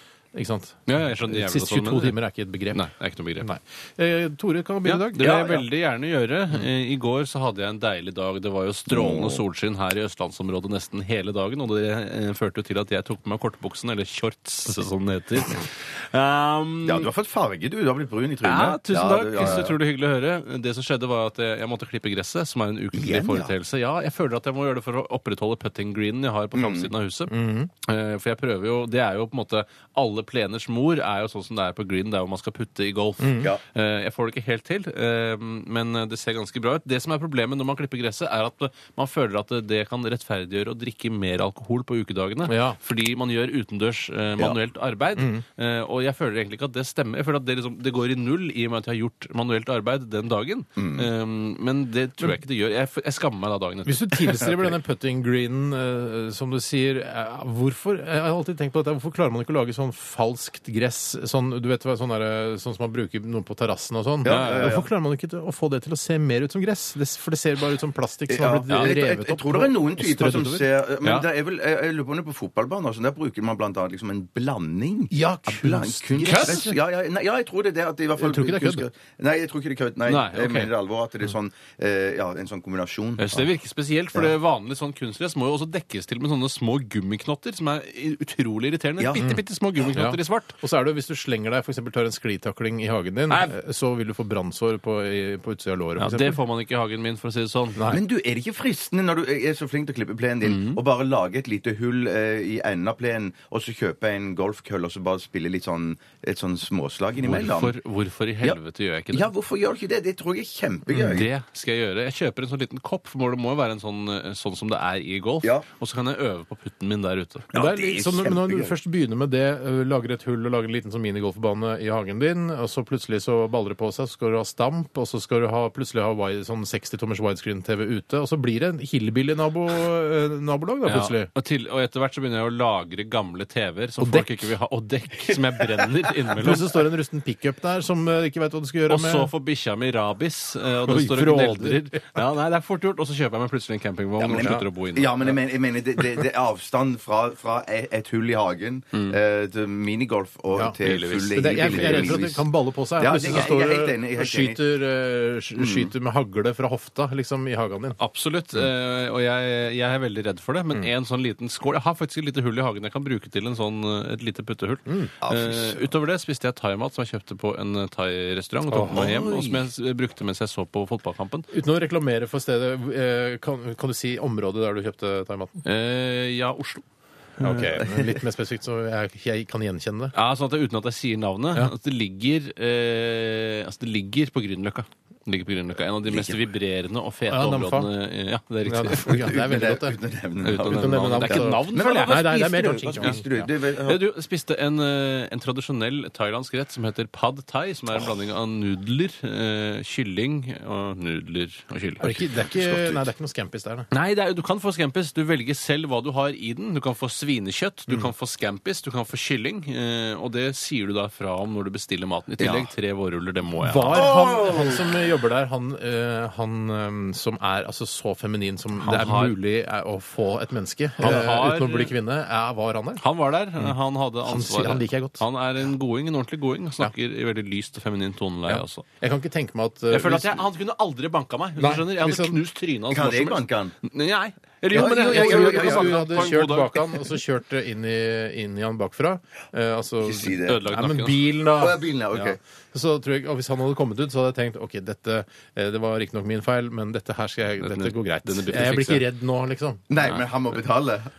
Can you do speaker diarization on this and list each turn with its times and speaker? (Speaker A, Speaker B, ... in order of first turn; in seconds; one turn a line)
Speaker A: 0.3-2.9
Speaker B: 0.9-2.2
Speaker B: 2.7-3.5
Speaker A: 3.4-5.4
Speaker B: 4.8-17.1
Speaker C: 5.2-5.6
Speaker C: 8.9-9.4
Speaker C: 16.8-19.8
Speaker B: 18.4-54.5
Speaker C: 22.9-23.5
Speaker C: 26.5-26.9
Speaker A: 27.3-27.7
Speaker A: 33.2-33.5
Speaker A: 42.5-42.8
Speaker A: 45.2-45.4
Speaker C: 50.8-51.1
Speaker A: 53.9-70.7
Speaker C: 64.2-64.8
Speaker B: 64.2-64.8
Speaker C: 68.3-83.3
Speaker B: 68.7-68.9
Speaker A: 75.1-76.8
Speaker B: 76.2-76.7
Speaker A: 78.2-78.8
Speaker B: 80.0-80.7
Speaker B: 83.2-90.5
Speaker C: 89.0-89.4
Speaker A: 89.9-96.4
Speaker B: 93.3-93.5
Speaker B: 96.0-97.9
Speaker C: 97.9-107.8
Speaker B: 100.4-100.8
Speaker B: 107.2-109.3
Speaker C: 109.1-111.3
Speaker A: 110.9-111.2
Speaker B: 111.1-117.5
Speaker C: 117.5-118.7
Speaker A: 117.5-131.3
Speaker B: 130.8-136.7
Speaker A: 134.0-134.5
Speaker A: 136.4-139.3
Speaker B: 138.9-145.4
Speaker A: 140.8-142.2
Speaker C: 144.2-152.4
Speaker A: 144.4-144.6
Speaker B: 150.8-152.2
Speaker A: 151.3-158.0
Speaker C: 153.0-154.6
Speaker C: 155.6-155.9
Speaker B: 158.0-171.5
Speaker C: 165.2-165.9
Speaker A: 168.7-169.1
Speaker C: 168.9-169.6
Speaker A: 171.5-175.6
Speaker B: 175.6-176.8
Speaker A: 177.4-180.1
Speaker B: 177.4-177.7
Speaker B: 180.1-189.2
Speaker C: 186.1-186.4
Speaker A: 187.3-187.9
Speaker A: 188.6-190.0
Speaker C: 188.9-194.0
Speaker B: 190.4-192.3
Speaker A: 190.5-193.3
Speaker B: 193.0-193.3
Speaker B: 193.8-202.1
Speaker A: 202.0-203.9
Speaker C: 202.1-203.0
Speaker B: 203.9-214.1
Speaker C: 212.4-212.7
Speaker A: 213.6-223.0
Speaker C: 213.9-215.0
Speaker B: 218.8-219.4
Speaker B: 221.0-221.9
Speaker B: 223.0-228.8
Speaker A: 223.6-225.2
Speaker A: 228.5-230.4
Speaker B: 229.9-237.2
Speaker A: 231.6-232.4
Speaker C: 232.9-233.7
Speaker C: 234.7-236.3
Speaker A: 234.7-249.8
Speaker C: 240.0-240.6
Speaker B: 240.4-241.2
Speaker C: 241.6-242.4
Speaker B: 247.6-249.0
Speaker C: 249.9-251.1